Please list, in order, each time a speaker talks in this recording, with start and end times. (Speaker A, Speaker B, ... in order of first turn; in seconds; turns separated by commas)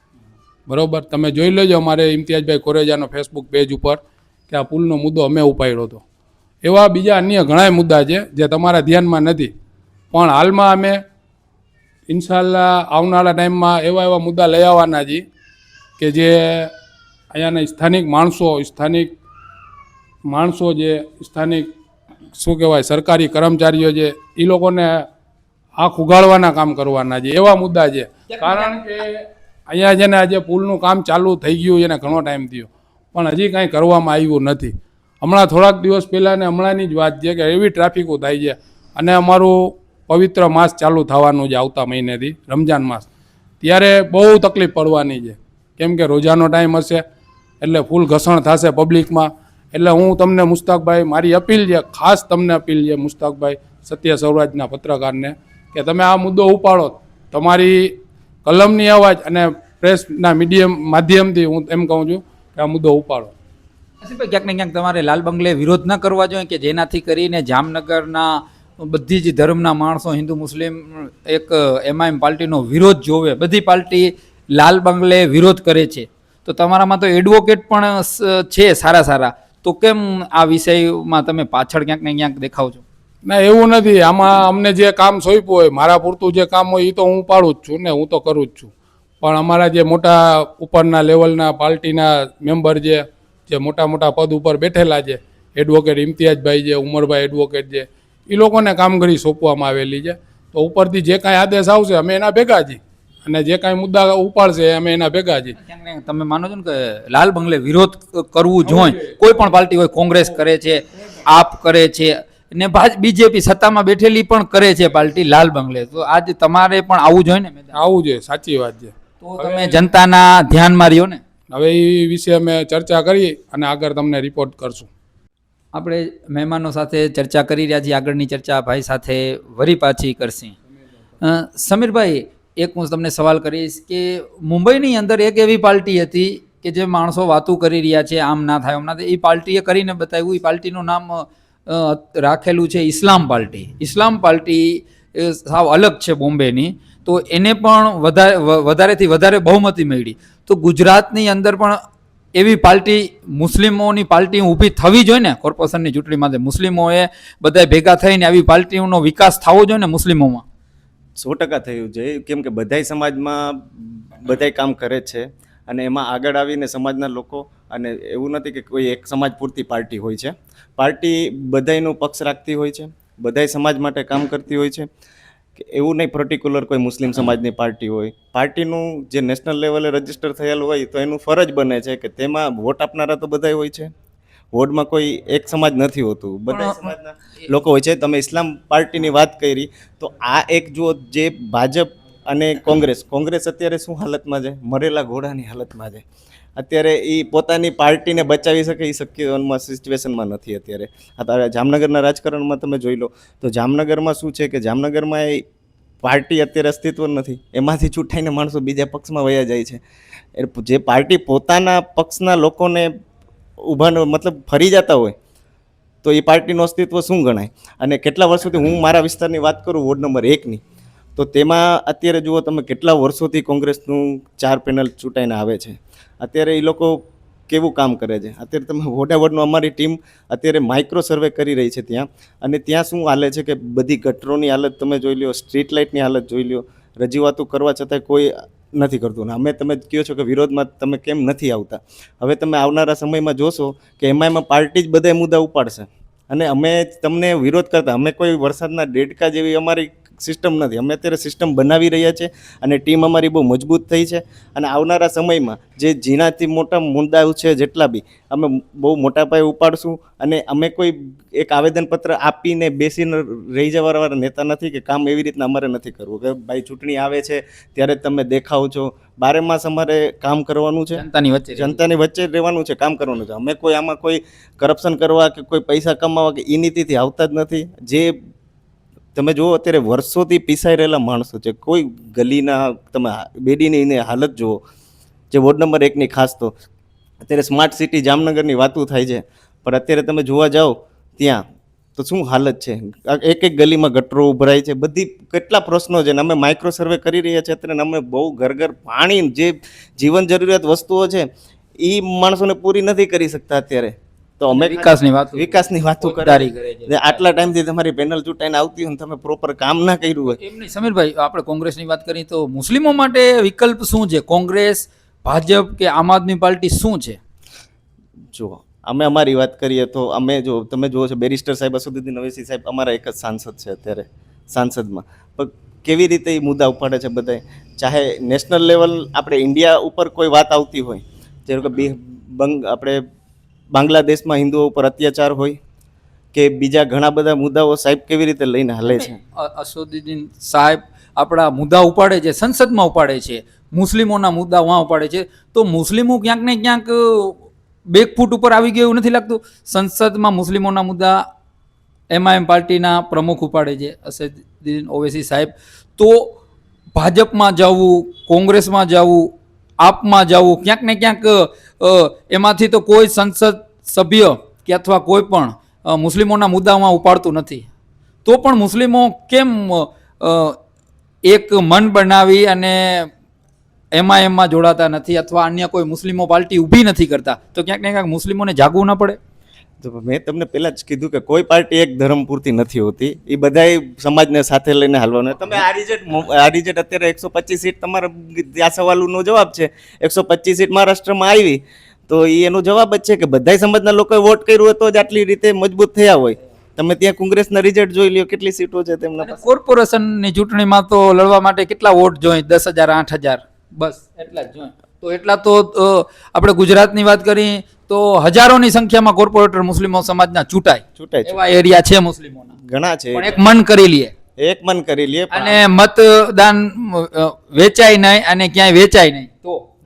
Speaker A: 0.7-6.0, Speaker A: 6.6-9.5, Speaker A: 10.1-11.0, Speaker A: 12.1-15.2, Speaker A: 16.0-16.7, Speaker A: 17.3-19.1, Speaker A: 20.3-21.7, Speaker A: 22.4-25.1, Speaker A: 25.8-43.1, Speaker B: 28.4-28.8, Speaker A: 43.6-47.0, Speaker A: 47.6-63.3, Speaker B: 64.0-82.8, Speaker A: 83.2-105.5, Speaker B: 105.6-117.7, Speaker A: 108.7-109.1, Speaker A: 117.7-119.8, Speaker B: 119.2-121.2, Speaker A: 121.5-124.9, Speaker B: 125.7-130.5, Speaker B: 131.2-151.8, Speaker B: 152.3-160.4, Speaker C: 161.2-174.9, Speaker C: 175.6-183.9, Speaker C: 184.5-196.0, Speaker B: 186.5-186.9, Speaker C: 196.6-205.4, Speaker C: 206.0-209.8, Speaker C: 210.3-212.9, Speaker C: 213.6-215.1, Speaker C: 216.0-220.6, Speaker C: 221.2-227.0, Speaker C: 227.5-271.0, Speaker B: 270.9-271.8, Speaker C: 271.5-278.1, Speaker C: 279.1-284.6, Speaker C: 285.3-286.5, Speaker C: 287.2-291.4, Speaker C: 291.9-301.2, Speaker C: 301.8-310.4, Speaker B: 304.5-307.2, Speaker B: 310.3-317.2, Speaker C: 318.3-333.0, Speaker C: 333.7-335.6, Speaker C: 336.3-339.2, Speaker B: 338.9-351.2, Speaker B: 352.1-356.3, Speaker B: 356.9-359.3, Speaker B: 359.8-367.7, Speaker B: 368.2-370.6, Speaker B: 371.2-373.1, Speaker B: 373.9-379.2, Speaker C: 379.8-399.4, Speaker B: 399.2-412.6, Speaker C: 411.0-411.4, Speaker C: 412.6-413.4, Speaker B: 413.1-414.1, Speaker C: 414.4-415.6, Speaker B: 415.3-419.6